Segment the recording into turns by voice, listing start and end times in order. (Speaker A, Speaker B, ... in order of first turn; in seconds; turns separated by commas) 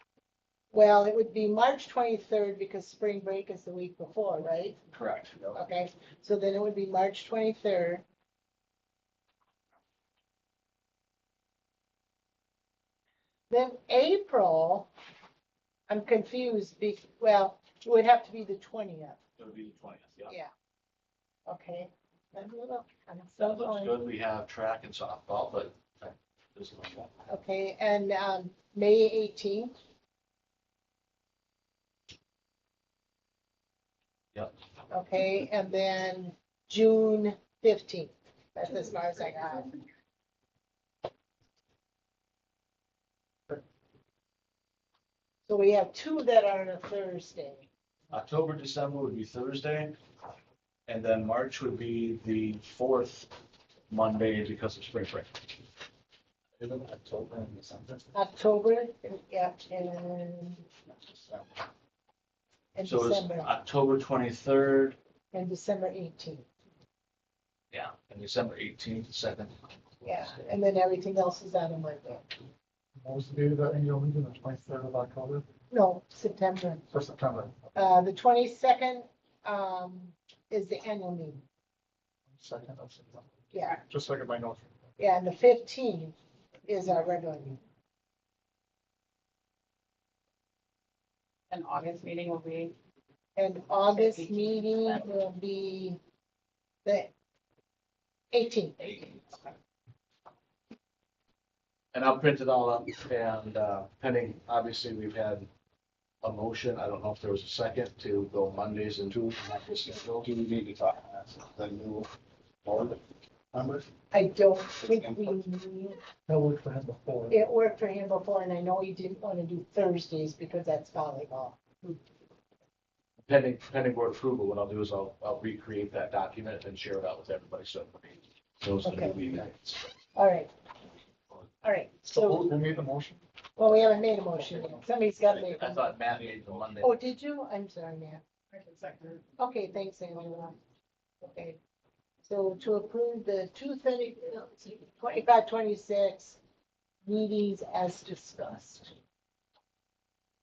Speaker A: 0.7-4.8, Speaker B: 4.9-5.3, Speaker A: 5.5-8.0, Speaker A: 13.5-14.9, Speaker A: 15.9-19.2, Speaker B: 19.4-20.3, Speaker A: 21.5-23.9, Speaker B: 23.4-27.1, Speaker A: 27.3-29.7, Speaker A: 34.9-39.8, Speaker A: 45.5-47.7, Speaker B: 48.1-50.0, Speaker B: 50.9-53.3, Speaker B: 53.9-55.5, Speaker C: 56.6-58.1, Speaker A: 58.1-60.7, Speaker C: 60.9-61.6, Speaker A: 62.8-63.5, Speaker B: 62.8-65.0, Speaker A: 65.3-66.5, Speaker B: 67.7-70.4, Speaker A: 70.0-72.2, Speaker D: 73.0-75.4, Speaker A: 75.7-76.9, Speaker D: 76.9-77.7, Speaker A: 77.8-81.4, Speaker D: 82.3-84.7, Speaker A: 83.5-83.8, Speaker A: 85.0-86.2, Speaker A: 86.7-87.6, Speaker E: 91.5-92.7, Speaker A: 93.4-96.0, Speaker E: 93.9-95.0, Speaker A: 96.8-97.1, Speaker A: 98.3-99.2, Speaker B: 101.9-105.5, Speaker B: 106.2-110.3, Speaker C: 109.3-112.1, Speaker C: 112.6-113.0, Speaker C: 113.5-113.9, Speaker A: 114.1-116.0, Speaker C: 114.8-115.4, Speaker D: 116.3-117.3, Speaker A: 117.3-122.0, Speaker B: 123.2-129.9, Speaker A: 128.8-129.2, Speaker A: 130.2-130.5, Speaker A: 131.6-132.5, Speaker D: 132.1-133.2, Speaker A: 133.6-135.9, Speaker B: 135.3-137.0, Speaker A: 136.8-138.2, Speaker A: 139.3-140.6, Speaker A: 141.2-141.6, Speaker A: 142.2-146.4, Speaker A: 147.1-148.9